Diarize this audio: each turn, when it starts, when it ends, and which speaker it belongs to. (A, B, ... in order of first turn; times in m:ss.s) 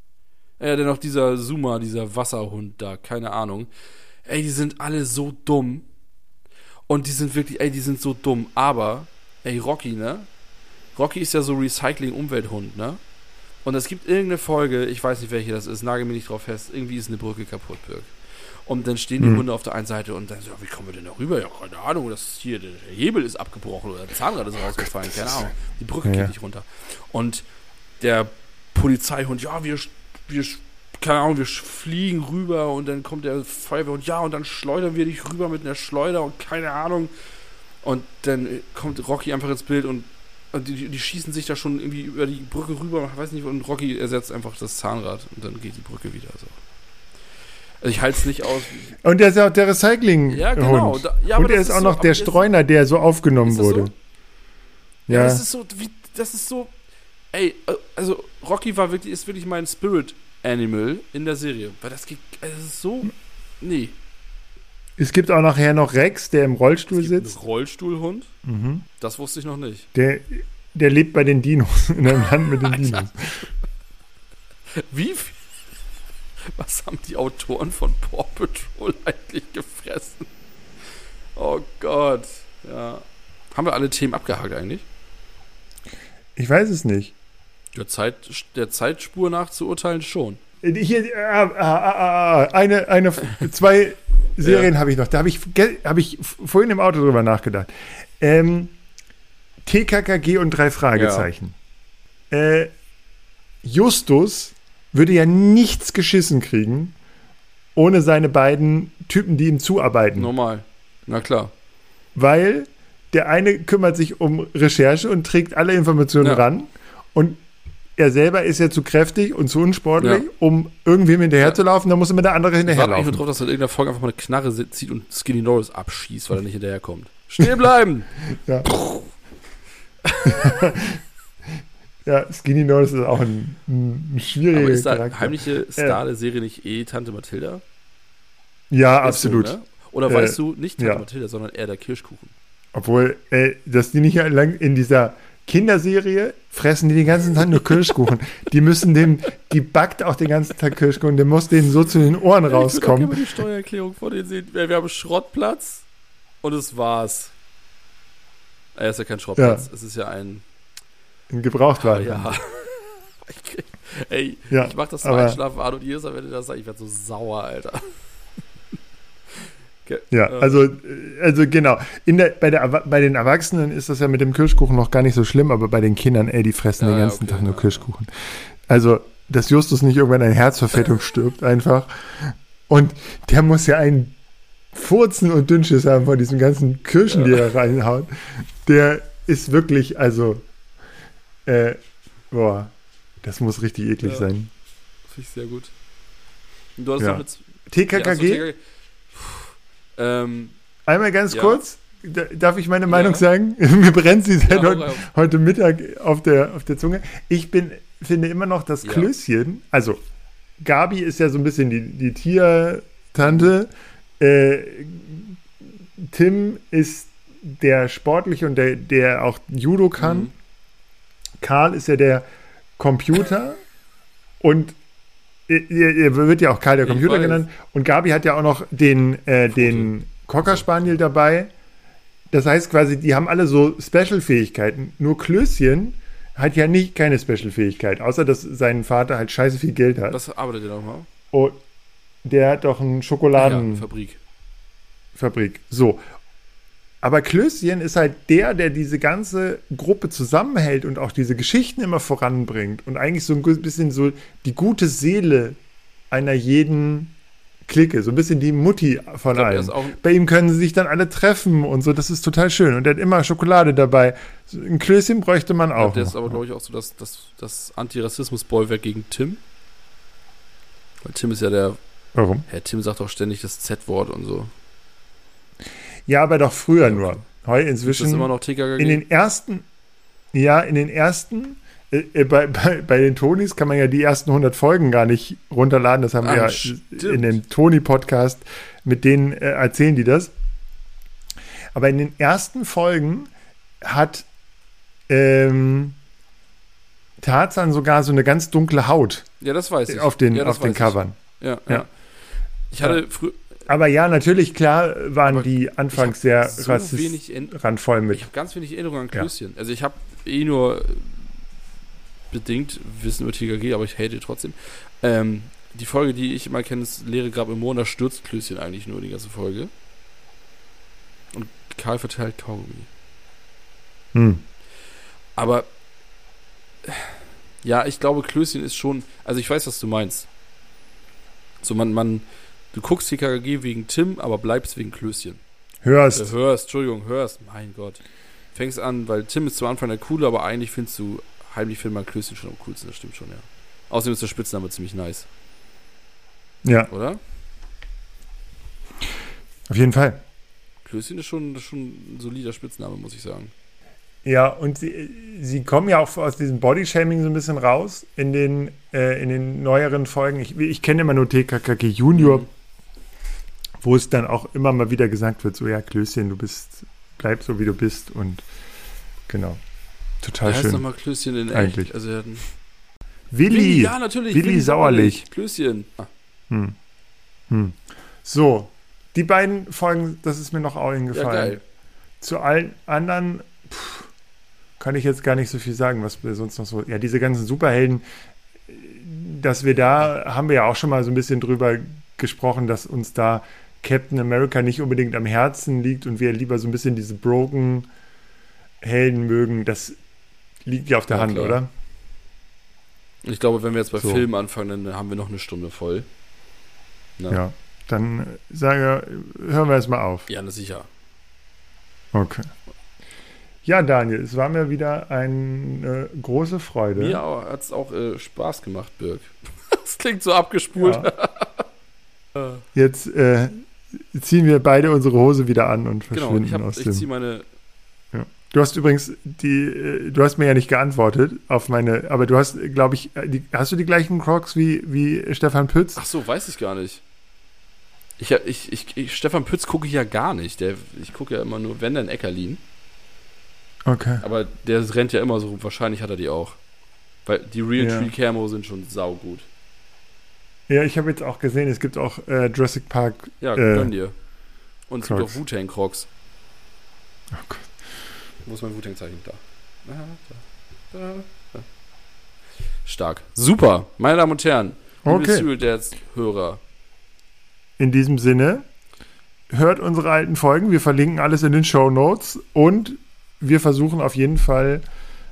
0:00.6-0:03.7 A
0:04.2-0:05.8 A
0:06.9-0:10.3 A
0:11.0-0:13.0 A
0:13.6-0:18.1 A
0:18.6-0:27.4 A
0:19.2-0:19.4 B
0:24.8-0:25.5 B
0:26.0-0:26.3 B
0:28.0-0:37.1 A
0:37.8-0:46.6 A
0:47.8-0:48.9 A
0:49.0-0:53.9 B
0:50.3-0:52.4 A
0:53.4-0:53.9 A
0:55.1-0:55.4 B
0:55.1-0:56.7 A
0:57.3-1:04.0 A
1:05.0-1:07.4 B
1:06.9-1:08.3 A
1:08.4-1:08.8 B
1:09.0-1:09.9 A
1:09.9-1:13.5 B
1:12.4-1:13.1 A
1:14.8-1:15.7 A
1:16.5-1:20.3 A
1:21.4-1:24.9 A
1:26.4-1:27.1 B
1:27.8-1:30.4 A
1:30.6-1:38.7 B
1:34.4-1:34.7 A
1:39.6-1:41.6 B
1:41.0-1:41.3 A
1:42.3-1:42.7 B
1:43.6-1:47.0 B
1:47.8-1:50.3 B
1:50.2-1:51.5 A
1:52.2-1:57.4 B
1:58.0-2:03.2 B
2:00.0-2:00.2 A
2:02.6-2:08.1 A
2:08.4-2:08.7 B
2:08.6-2:09.1 A
2:10.0-2:10.8 A
2:10.2-2:11.0 B
2:12.1-2:16.0 B
2:14.5-2:17.6 A
2:18.7-2:19.6 B
2:19.0-2:22.3 A
2:20.1-2:21.0 B
2:22.7-2:33.2 B
2:32.5-2:35.8 A
2:36.4-2:37.3 A
2:38.8-2:40.4 A
2:39.4-2:39.7 B
2:41.3-2:42.3 B
2:41.8-2:47.9 A
2:44.5-2:45.4 B
2:49.9-2:50.6 A
2:50.1-3:04.2 B
2:56.8-2:57.9 A
3:04.7-3:10.4 B
3:07.1-3:07.4 A
3:11.5-3:11.8 B
3:12.3-3:14.5 B
3:14.0-3:14.3 A
3:15.1-3:15.7 A
3:16.8-3:18.6 A
3:17.0-3:18.5 B
3:19.1-3:20.6 A
3:20.9-3:30.0 B
3:21.3-3:21.6 A
3:22.9-3:23.3 A
3:24.4-3:25.1 A
3:28.8-3:29.1 A
3:30.6-3:40.3 B
3:40.0-3:40.3 A
3:41.4-3:42.2 B
3:42.8-3:43.6 B
3:44.4-3:44.8 B
3:45.5-3:51.5 B
3:46.8-3:47.5 A
3:49.5-3:51.0 A
3:52.3-4:00.2 B
4:00.1-4:01.1 A
4:01.3-4:01.6 B
4:02.2-4:03.9 B
4:03.4-4:04.2 A
4:05.2-4:06.0 B
4:07.0-4:15.6 B
4:16.1-4:17.2 B
4:17.7-4:26.4 B
4:19.3-4:20.0 A
4:25.8-4:29.4 A
4:31.0-4:31.8 A
4:32.2-4:32.5 B
4:32.5-4:34.5 A
4:36.1-4:39.6 B
4:36.8-4:37.2 A
4:37.8-4:39.0 A
4:40.3-4:50.3 B
4:46.2-4:47.4 A
4:51.8-4:54.3 B
4:55.1-4:56.0 B
4:57.2-4:59.3 B
4:59.4-5:01.9 A
4:59.9-5:01.9 B
5:02.7-5:03.4 A
5:03.7-5:08.3 B
5:05.3-5:07.6 A
5:08.1-5:11.2 A
5:12.3-5:19.7 A
5:21.3-5:22.9 A
5:24.1-5:24.4 B
5:25.4-5:25.7 A
5:26.8-5:30.3 A
5:31.6-5:35.4 A
5:35.8-5:36.3 B
5:36.1-5:38.0 A
5:38.5-5:45.3 A
5:46.6-5:46.9 B
5:46.9-5:47.2 A
5:49.7-5:50.2 B
5:50.8-5:53.5 A
5:54.2-6:02.5 B
6:02.1-6:02.5 A
6:03.8-6:08.4 B
6:09.3-6:09.6 B
6:10.2-6:10.8 B
6:10.4-6:12.5 A
6:11.5-6:11.9 B
6:13.3-6:15.2 B
6:13.5-6:16.1 A
6:16.5-6:16.8 B
6:17.5-6:21.6 B
6:21.1-6:21.6 A
6:22.2-6:24.1 B
6:24.8-6:28.0 B
6:28.7-6:37.9 B
6:38.8-6:40.0 B
6:40.6-6:41.7 B
6:41.1-6:41.6 A
6:43.2-6:46.1 A
6:44.0-6:44.2 B
6:47.3-6:50.3 B
6:50.3-6:50.9 A
6:52.1-6:52.5 B
6:53.6-6:57.2 B
6:57.0-7:01.7 A
7:00.8-7:01.1 B
7:02.4-7:02.6 A
7:02.7-7:07.1 B
7:06.1-7:07.5 A
7:08.1-7:16.0 B
7:16.0-7:17.0 A
7:18.2-7:22.6 A
7:23.9-7:24.2 B
7:24.2-7:26.6 A
7:27.3-7:29.5 A
7:27.8-7:28.1 B
7:30.7-7:33.9 B
7:33.4-7:34.1 A
7:34.9-7:36.1 A
7:35.0-7:35.4 B
7:37.3-7:37.7 B
7:38.5-7:41.7 A
7:42.9-7:46.6 A
7:45.0-7:45.5 B
7:47.8-7:48.6 B
7:49.5-7:54.8 B